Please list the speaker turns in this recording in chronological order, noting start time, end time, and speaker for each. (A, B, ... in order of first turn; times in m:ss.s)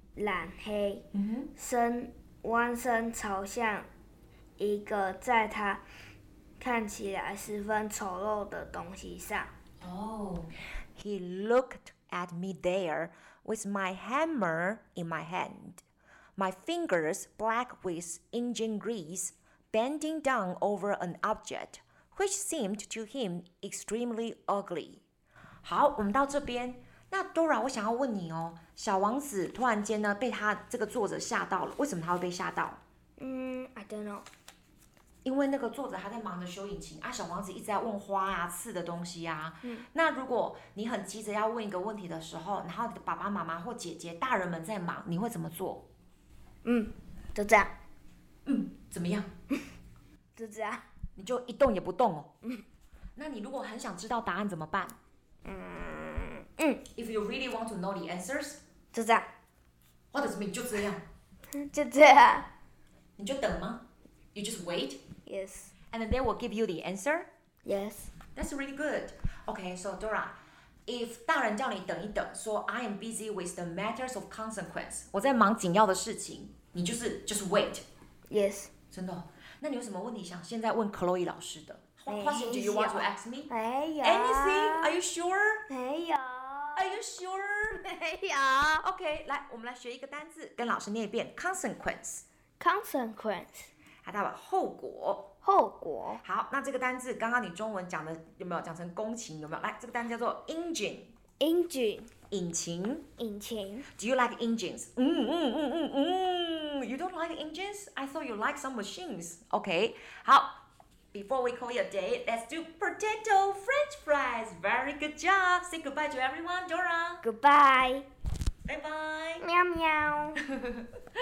0:00.2-0:01.0 A
0:01.1-0:01.5 B
0:01.5-0:03.9 A
0:04.6-0:05.8 A
0:06.6-0:09.5 A
0:09.8-0:15.8 B
0:16.4-0:25.0 B
0:25.6-0:32.8 B
0:33.2-0:34.2 A
0:35.2-0:45.8 B
0:46.6-0:47.7 A
0:48.4-0:49.3 B
0:50.4-0:50.8 A
0:51.2-0:52.3 B
0:53.2-0:55.0 B
0:55.4-0:56.8 A
0:56.9-0:58.6 B
0:58.9-0:59.3 A
1:00.1-1:01.0 B
1:01.5-1:02.5 A
1:03.2-1:03.8 B
1:04.3-1:05.0 B
1:05.2-1:05.7 A
1:05.9-1:07.3 B
1:07.6-1:08.1 A
1:08.3-1:10.4 B
1:10.9-1:17.8 B
1:18.3-1:18.7 A
1:18.9-1:23.5 B
1:22.1-1:25.0 A
1:24.0-1:25.6 B
1:25.7-1:27.0 A
1:26.7-1:27.8 B
1:27.7-1:28.8 A
1:28.8-1:32.2 B
1:32.6-1:33.7 A
1:34.0-1:35.3 B
1:35.4-1:36.2 A
1:36.2-1:41.1 B
1:41.4-1:42.1 A
1:42.3-1:43.1 B
1:43.2-1:43.9 A
1:43.9-1:50.6 B
1:51.1-1:57.2 B
1:57.2-1:58.0 A
1:58.6-1:59.4 B
1:59.4-2:00.4 A
2:00.6-2:00.8 B